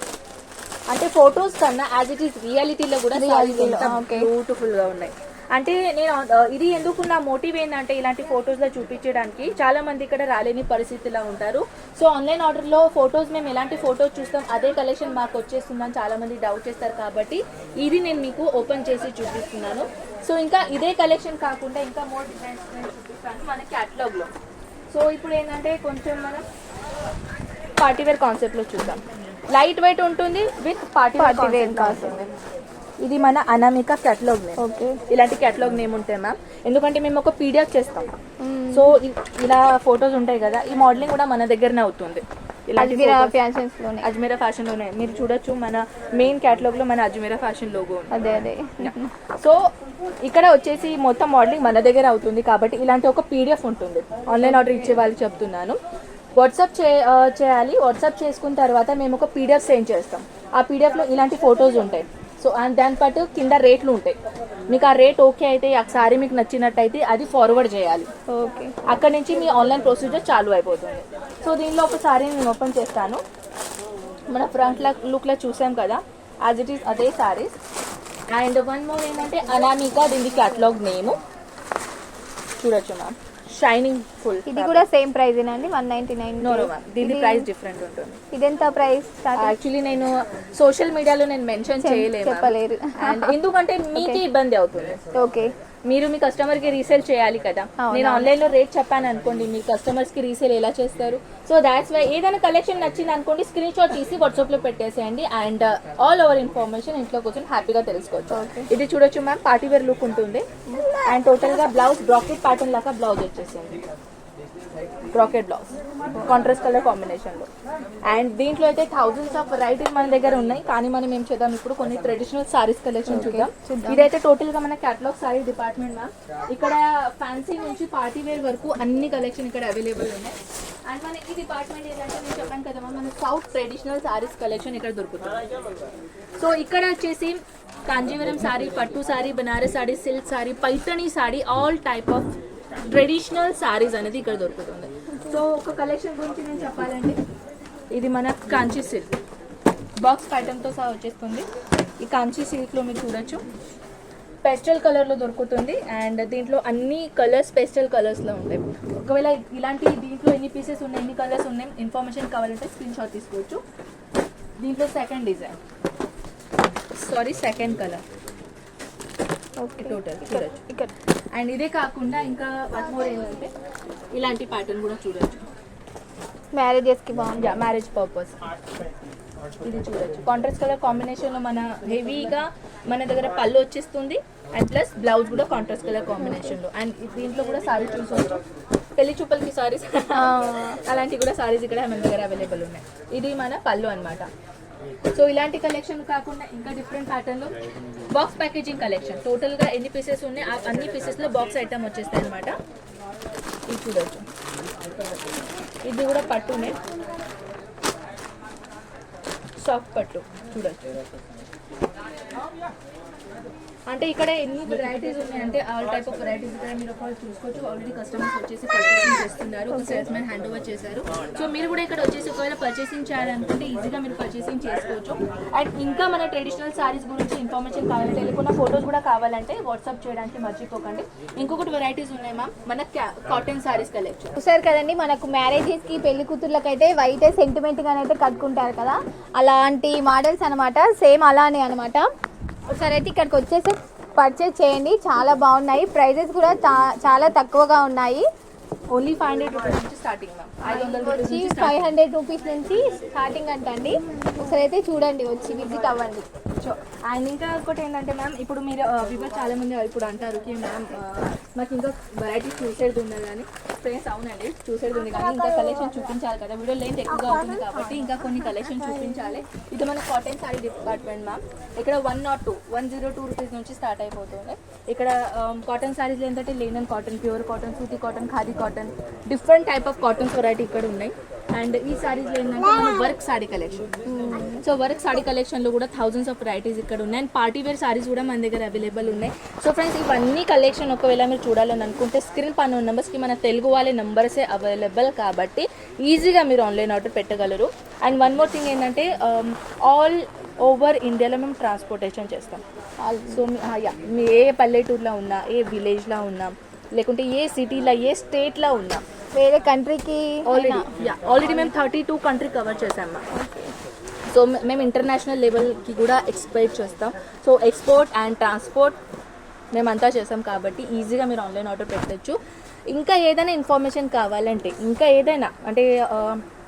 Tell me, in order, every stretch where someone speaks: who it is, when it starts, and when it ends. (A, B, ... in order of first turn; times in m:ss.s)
0:00.9-0:24.3 A
0:03.1-0:04.3 B
0:24.9-0:26.4 A
0:27.8-0:32.3 A
0:31.2-0:32.1 B
0:33.0-0:34.6 A
0:34.6-0:35.0 B
0:35.1-0:38.1 A
0:38.4-0:38.9 B
0:38.7-0:43.3 A
0:42.8-0:44.1 B
0:44.0-0:48.1 A
0:48.1-0:49.1 B
0:48.8-0:49.6 A
0:50.2-0:55.8 A
0:54.4-0:54.9 B
0:56.4-1:04.2 A
1:04.7-1:08.1 A
1:08.3-1:08.7 B
1:08.9-1:13.2 A
1:14.3-1:17.6 A
1:18.3-1:21.2 A
1:22.6-1:24.8 A
1:24.5-1:27.5 B
1:26.4-1:28.2 A
1:28.3-1:29.5 B
1:29.4-1:35.0 A
1:31.8-1:33.3 B
1:33.9-1:34.2 B
1:35.2-1:35.5 B
1:35.9-1:50.4 A
1:37.8-1:38.3 B
1:48.3-1:48.7 B
1:50.7-1:51.7 B
1:51.0-1:53.8 A
1:55.1-1:57.5 A
1:58.1-2:10.4 A
2:03.1-2:04.1 B
2:10.9-2:15.4 A
2:16.4-2:22.3 A
2:22.9-2:27.2 A
2:27.9-2:29.1 A
2:30.0-2:31.5 A
2:32.0-2:33.4 A
2:34.4-2:43.6 A
2:44.6-2:45.6 A
2:47.0-2:48.0 A
2:49.6-2:50.9 B
2:49.8-2:50.6 A
2:51.3-2:53.5 A
2:54.1-2:55.4 A
2:56.5-2:57.6 B
2:57.4-2:58.3 A
2:59.6-3:08.4 A
3:06.2-3:06.5 B
3:09.0-3:10.3 A
3:10.1-3:10.8 B
3:10.8-3:14.3 A
3:15.1-3:17.5 A
3:18.1-3:22.5 A
3:23.7-3:24.2 A
3:25.8-3:26.8 A
3:29.6-3:30.9 A
3:33.9-3:54.4 A
3:39.7-3:40.0 B
3:54.4-4:02.1 B
4:02.7-4:08.2 B
4:08.9-4:11.9 A
4:10.6-4:16.2 B
4:16.6-4:43.9 A
4:25.0-4:26.0 B
4:27.1-4:29.2 B
4:44.1-4:44.6 B
4:44.6-5:02.6 A
5:03.0-5:03.4 B
5:03.3-5:09.0 A
5:09.3-5:10.9 B
5:10.5-5:13.2 A
5:11.4-5:11.7 B
5:13.3-5:13.7 B
5:14.3-5:19.0 A
5:19.7-5:22.4 A
5:22.9-5:26.4 A